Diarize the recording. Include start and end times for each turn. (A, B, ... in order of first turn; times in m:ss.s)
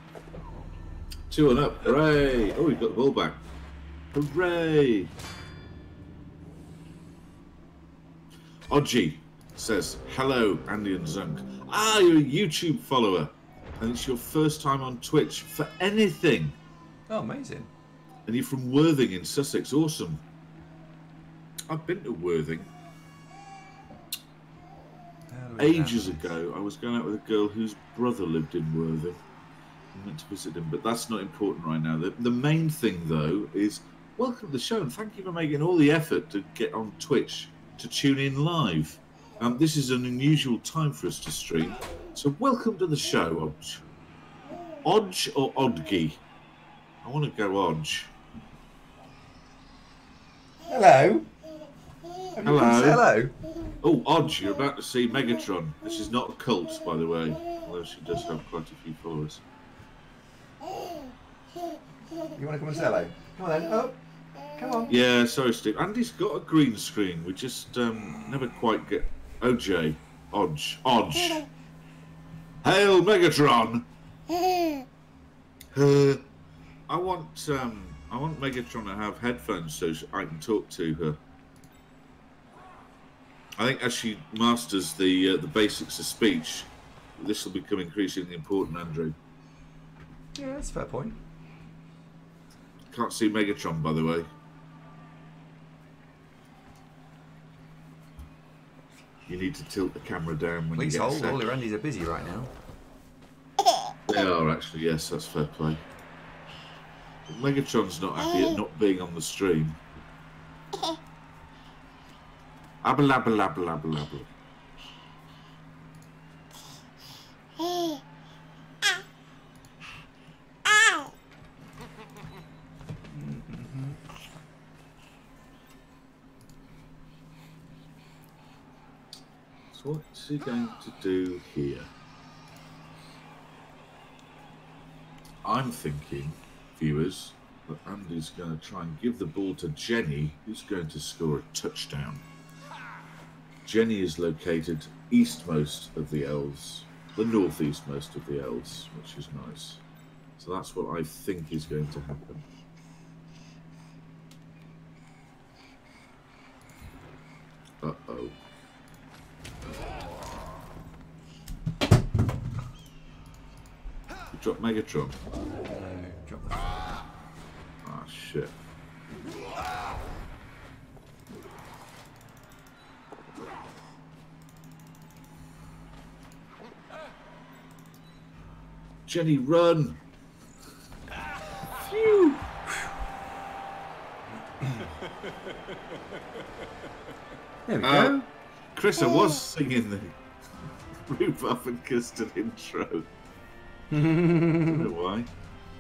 0:01.3-0:03.4 A
0:04.1-0:05.1 A
0:08.7-0:16.6 A
0:17.1-0:17.7 B
0:18.3-0:20.2 A
0:21.7-0:22.7 A
0:25.3-0:26.3 B
0:25.6-0:29.2 A
0:29.9-0:43.8 A
0:44.8-0:46.2 A
0:47.0-0:48.1 A
0:50.7-0:51.3 B
0:52.3-0:53.4 B
0:52.4-0:53.1 A
0:53.8-0:59.4 A
1:02.3-1:04.0 B
1:04.5-1:05.0 B
1:04.9-1:11.5 A
1:12.6-1:13.9 A
1:15.7-1:16.2 A
1:16.9-1:21.2 A
1:23.6-1:29.2 A
1:30.4-1:31.2 B
1:32.9-1:34.3 A
1:39.3-1:41.5 A
1:40.8-1:42.5 B
1:44.0-1:45.8 A
1:47.3-1:49.8 A
1:52.8-1:54.3 A
2:03.1-2:04.0 B
2:09.7-2:11.9 A
2:15.4-2:22.2 A
2:23.6-2:29.8 A
2:30.4-2:32.4 A
2:37.8-2:38.4 A
2:44.3-2:45.2 A
2:45.6-2:46.7 B
2:47.8-2:48.5 A
2:59.1-3:00.0 A
3:01.7-3:02.6 A
3:07.7-3:08.2 B
3:07.8-3:10.2 A
3:11.0-3:13.1 A
3:13.9-3:14.9 B
3:14.5-3:15.3 A